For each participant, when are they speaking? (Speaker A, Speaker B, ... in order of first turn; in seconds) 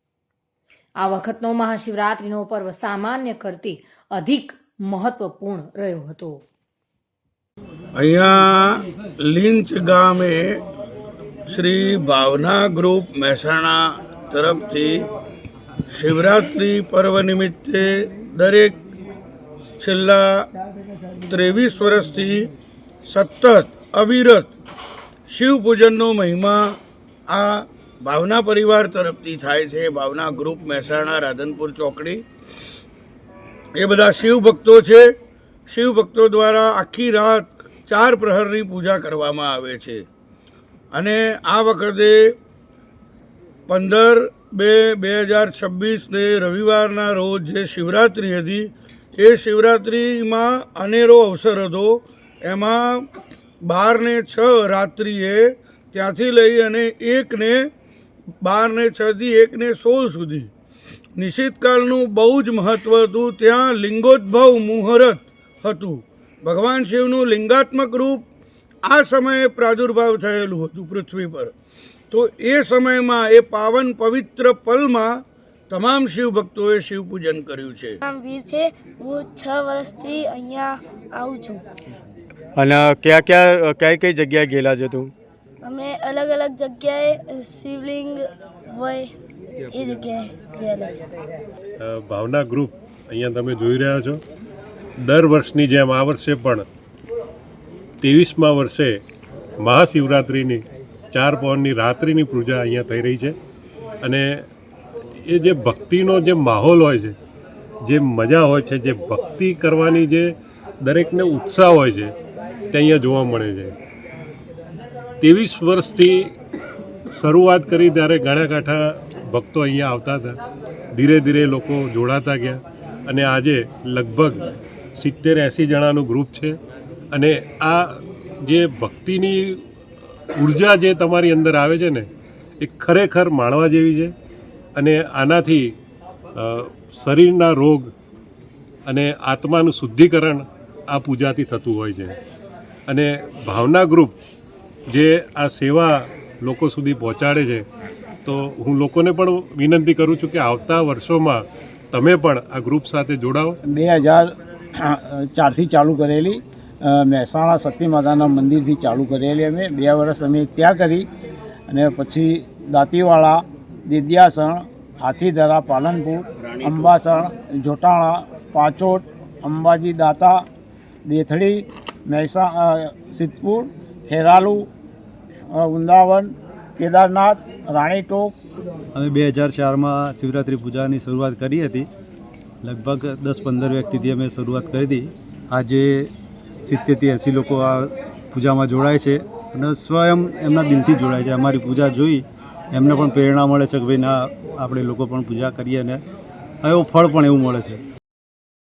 Speaker A: 1.0-6.4
Speaker B: 7.9-10.6, 11.5-15.1, 15.9-18.8, 19.8-20.5, 21.3-22.5, 23.0-24.5, 25.3-32.2, 33.8-35.1, 35.7-40.0, 40.9-42.4, 43.7-53.1, 53.6-57.7, 58.4-60.5, 61.1-68.2, 68.8-71.5, 72.1-78.0
Speaker C: 78.0-81.6, 85.6-89.1, 89.7-91.0
Speaker D: 82.5-85.1
Speaker E: 91.8-94.2, 95.0-96.6, 98.0-99.0, 99.6-103.3, 104.0-104.4, 105.2-107.2, 107.8-112.1, 112.7-113.7, 115.2-116.3, 117.1-120.4, 120.9-124.4, 125.0-126.6, 127.1-129.6, 130.3-132.1, 132.6-134.1, 134.7-135.8, 136.3-137.9, 138.8-142.2, 142.9-144.1, 144.9-147.7, 148.2-153.6
Speaker F: 153.7-161.1, 161.7-170.5, 171.1-174.7, 175.5-178.3
Speaker G: 178.9-181.9, 182.6-186.1, 186.6-196.0, 196.6-197.8